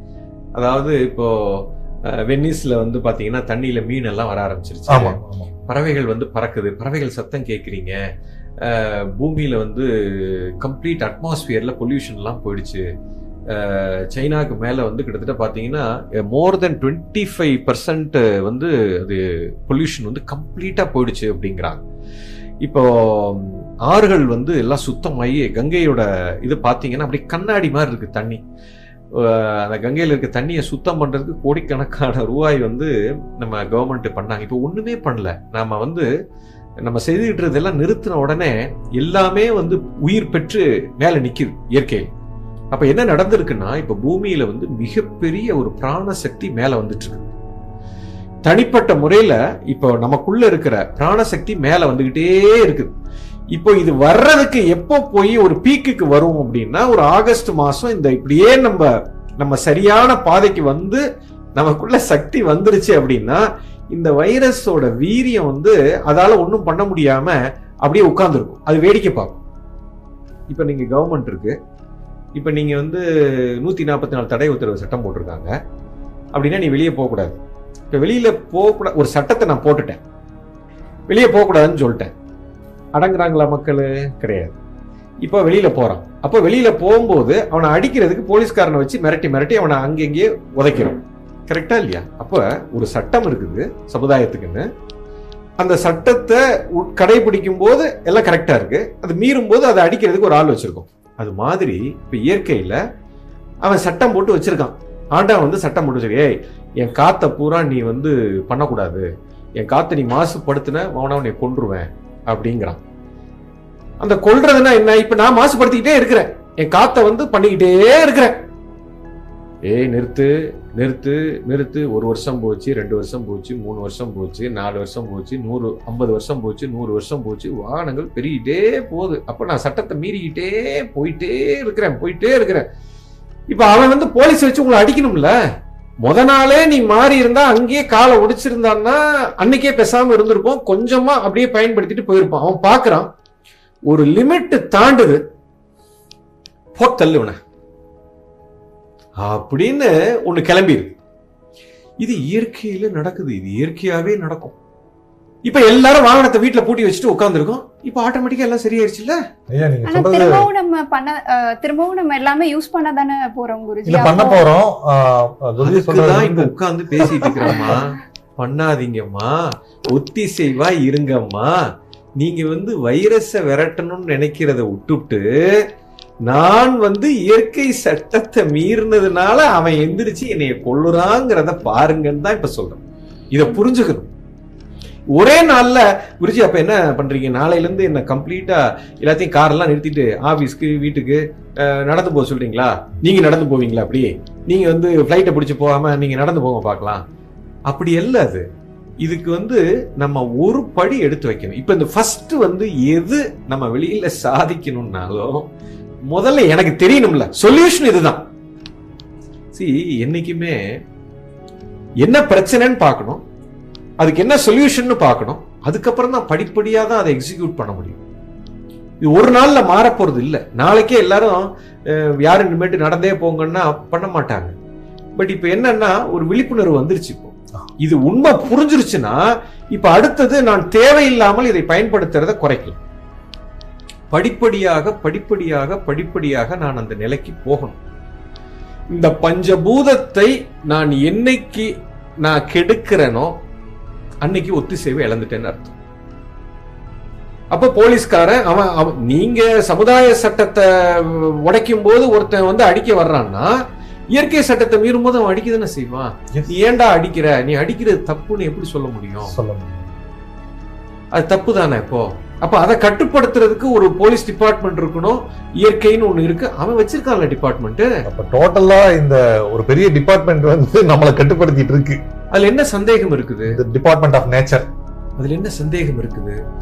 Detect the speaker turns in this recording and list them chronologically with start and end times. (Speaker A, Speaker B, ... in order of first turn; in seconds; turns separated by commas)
Speaker A: 0.6-8.0, Speaker B: 4.9-5.5, Speaker A: 8.6-12.8, Speaker A: 13.5-21.8, Speaker A: 22.6-28.4, Speaker A: 29.1-36.1, Speaker A: 36.8-42.1, Speaker A: 42.7-47.3, Speaker A: 48.5-52.9, Speaker A: 53.5-61.0, Speaker A: 61.6-69.4, Speaker A: 70.5-71.6, Speaker A: 72.4-75.5, Speaker A: 76.3-77.4, Speaker A: 77.9-80.0, Speaker A: 81.1-82.1, Speaker A: 83.0-84.6, Speaker A: 85.2-94.7, Speaker A: 95.6-102.8, Speaker A: 103.6-109.1, Speaker A: 109.6-112.8, Speaker A: 114.0-118.4, Speaker A: 119.7-132.7, Speaker A: 133.5-135.3, Speaker A: 136.0-143.1, Speaker A: 143.9-145.2, Speaker A: 146.8-147.4, Speaker A: 149.2-150.9, Speaker A: 152.0-154.6, Speaker A: 155.5-159.2, Speaker B: 159.5-160.5, Speaker C: 159.9-164.5, Speaker B: 163.8-167.8, Speaker A: 165.6-171.6, Speaker A: 172.2-175.6, Speaker A: 176.3-184.1, Speaker A: 185.2-197.0, Speaker A: 197.7-198.5, Speaker A: 199.0-205.5, Speaker A: 206.1-208.2, Speaker A: 209.5-210.6, Speaker A: 212.0-213.2, Speaker A: 214.0-218.0, Speaker A: 219.0-224.5, Speaker A: 225.2-229.2, Speaker A: 229.7-232.8, Speaker A: 234.1-237.8, Speaker A: 238.9-241.7, Speaker A: 242.2-243.3, Speaker A: 244.2-245.8, Speaker A: 247.5-253.5, Speaker A: 254.1-259.4, Speaker B: 259.3-259.9, Speaker A: 261.1-267.9, Speaker B: 268.1-272.0, Speaker A: 272.3-273.6, Speaker B: 273.5-274.7, Speaker A: 275.2-276.4